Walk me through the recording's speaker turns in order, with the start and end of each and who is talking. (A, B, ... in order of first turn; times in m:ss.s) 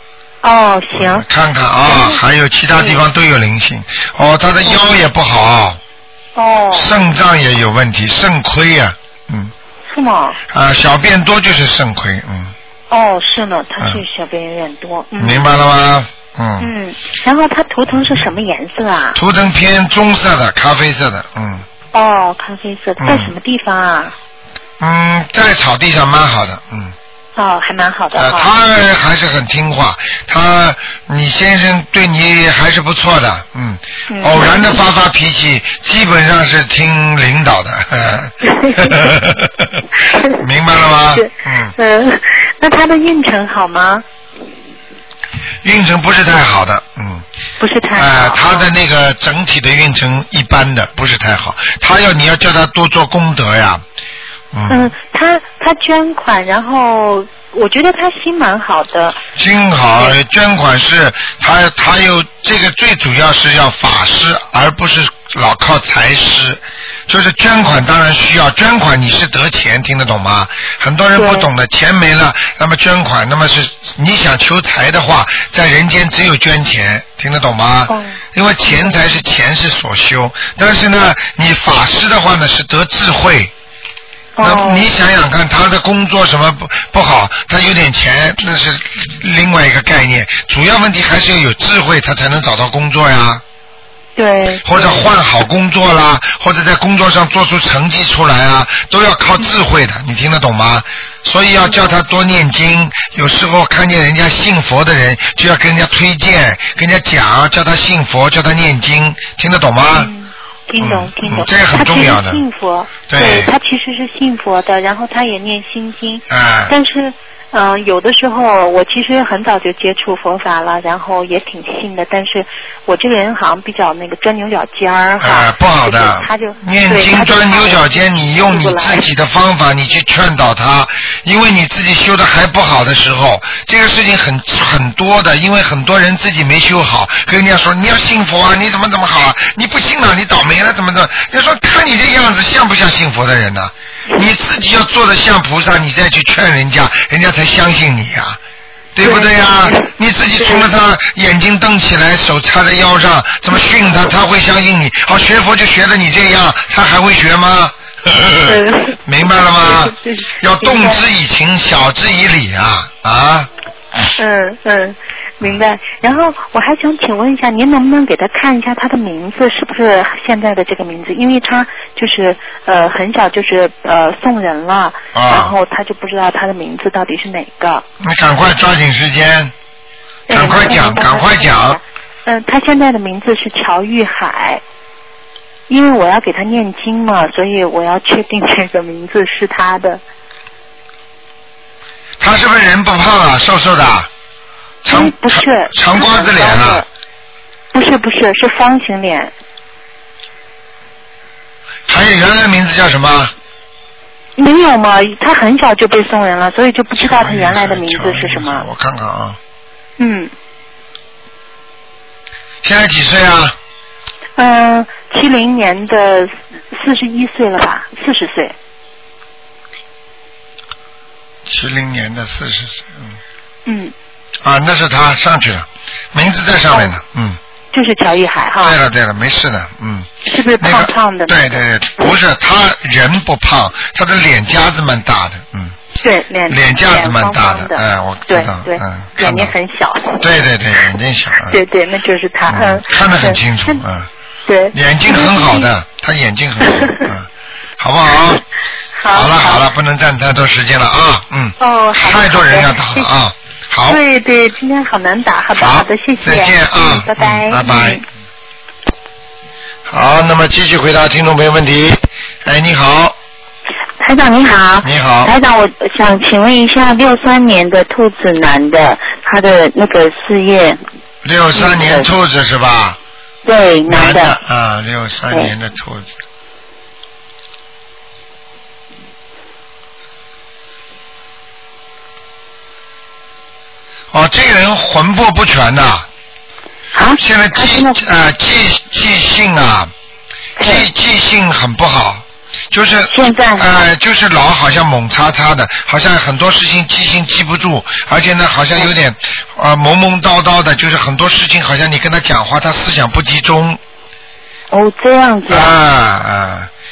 0:00.4-0:01.2 A
0:01.0-0:05.8 B
0:01.8-0:02.2 A
0:02.8-0:03.0 A
0:06.4-0:06.9 A
0:06.7-0:09.5 B
0:09.9-0:10.4 A
0:10.5-0:12.5 B
0:12.9-0:15.6 A
0:15.2-0:16.7 B
0:16.6-0:19.2 A
0:19.2-0:21.7 B
0:21.9-0:24.1 A
0:23.0-0:23.3 B
0:24.8-0:27.0 B
0:27.4-0:28.5 A
0:28.1-0:39.8 B
0:34.1-0:34.7 A
0:38.5-0:39.1 A
0:40.1-0:40.4 A
0:40.4-0:41.7 B
0:41.2-0:44.0 A
0:45.6-0:47.2 B
0:47.6-0:48.7 A
0:47.9-0:53.8 B
0:54.5-0:54.9 B
0:54.7-0:59.2 A
0:59.4-1:23.5 B
1:11.2-1:11.5 A
1:17.9-1:19.0 A
1:24.4-1:24.9 A
1:24.4-1:33.4 B
1:34.2-1:35.1 A
1:34.6-1:50.1 B
1:41.7-1:41.9 A
1:49.9-2:09.0 A
1:50.8-1:52.4 B
1:53.1-1:53.5 B
1:56.3-1:56.7 B
2:05.2-2:28.4 B
2:29.0-2:43.5 B
2:29.0-2:30.7 A
2:38.5-2:39.0 A
2:39.6-2:41.1 A
2:44.2-2:57.8 A
2:55.1-2:55.6 B
2:58.0-2:59.5 B
3:00.3-3:04.6 A
3:00.3-3:01.8 B
3:05.7-3:10.0 A
3:12.2-3:14.1 B
3:14.9-3:16.8 B
3:14.9-3:16.9 A
3:17.7-3:19.3 A
3:21.9-3:23.3 B
3:24.4-3:28.6 A
3:27.0-3:29.4 B
3:30.0-3:30.3 A
3:32.6-3:33.6 B
3:34.4-3:38.6 A
3:41.5-3:43.2 B
3:43.7-3:43.9 A
3:44.4-3:47.4 B
3:47.7-3:48.8 A
3:48.6-3:55.8 B
3:50.3-3:51.6 A
3:56.0-4:00.3 A
3:56.5-3:59.5 B
4:00.2-4:01.6 B
4:01.4-4:03.8 A
4:02.5-4:04.1 B
4:04.5-4:05.7 A
4:04.7-4:07.3 B
4:06.6-4:07.1 A
4:07.8-4:08.4 B
4:09.0-4:09.7 A
4:09.1-4:14.0 B
4:11.6-4:13.1 A
4:13.9-4:18.0 A
4:15.6-4:18.0 B
4:19.9-4:23.2 B
4:24.0-4:30.8 C
4:24.8-4:25.3 B
4:31.2-4:33.0 B
4:31.6-4:32.1 C
4:33.4-4:34.4 C
4:33.9-4:36.2 B
4:44.1-4:46.1 B
4:46.9-4:48.0 C
4:47.2-4:49.9 B
4:50.6-4:50.9 C
4:50.6-5:03.8 B
4:53.1-4:53.7 C
5:04.7-5:05.8 C
5:05.5-5:06.7 B